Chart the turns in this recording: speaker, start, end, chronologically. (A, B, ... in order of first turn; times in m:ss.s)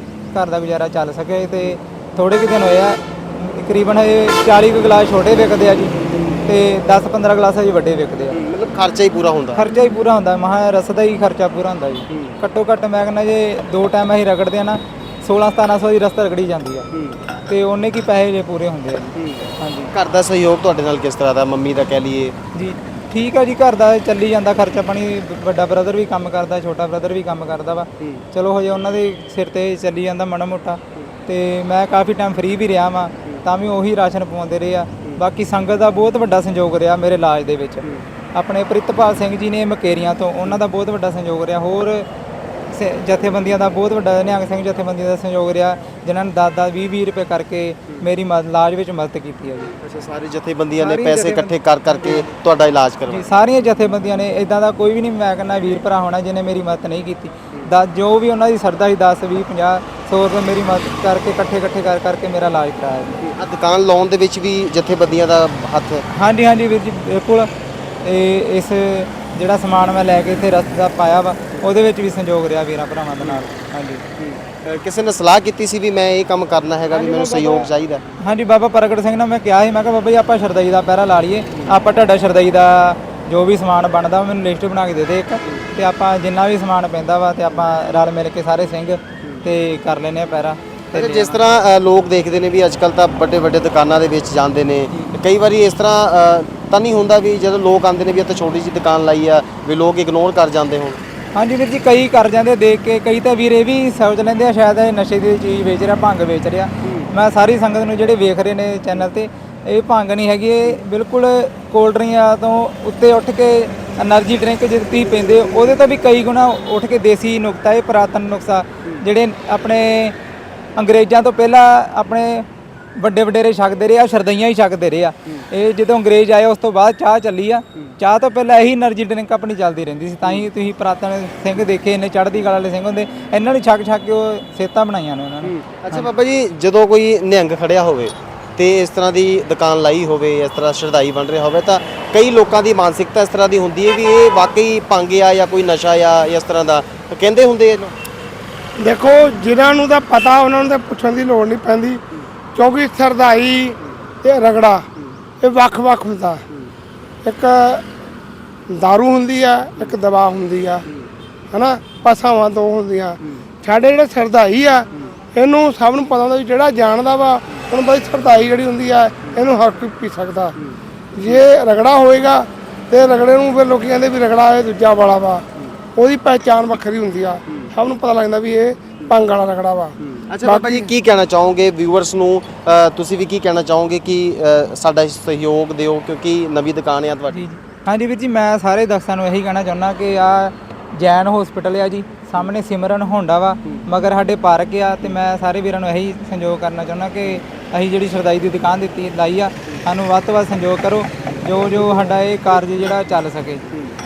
0:00.3-0:08.4 A
0:06.0-0:06.4 B
0:08.3-0:09.7 B
0:09.6-0:16.9 A
0:12.1-0:12.4 B
0:16.9-0:17.2 B
0:17.5-0:19.9 A
0:19.2-0:22.4 B
0:22.6-0:42.1 A
0:42.7-0:49.7 A
0:49.8-0:53.3 B
0:50.8-0:52.3 A
0:53.1-1:03.2 A
1:03.2-1:06.1 B
1:06.1-1:07.5 A
1:08.0-1:14.0 A
1:13.2-1:13.5 B
1:14.2-1:18.0 B
1:16.9-1:17.7 A
1:18.2-1:31.4 A
1:30.9-1:41.0 B
1:41.3-2:00.2 A
1:46.8-1:47.1 B
2:00.8-2:02.5 A
2:03.0-2:16.1 A
2:15.4-2:27.9 B
2:28.8-2:32.0 C
2:32.6-2:34.8 C
2:35.4-2:36.4 C
2:37.2-2:37.8 C
2:38.7-2:40.9 C
2:41.5-2:50.6 C
2:51.2-2:55.4 C
2:56.0-3:00.9 C
3:00.0-3:07.4 B
3:07.3-3:23.7 A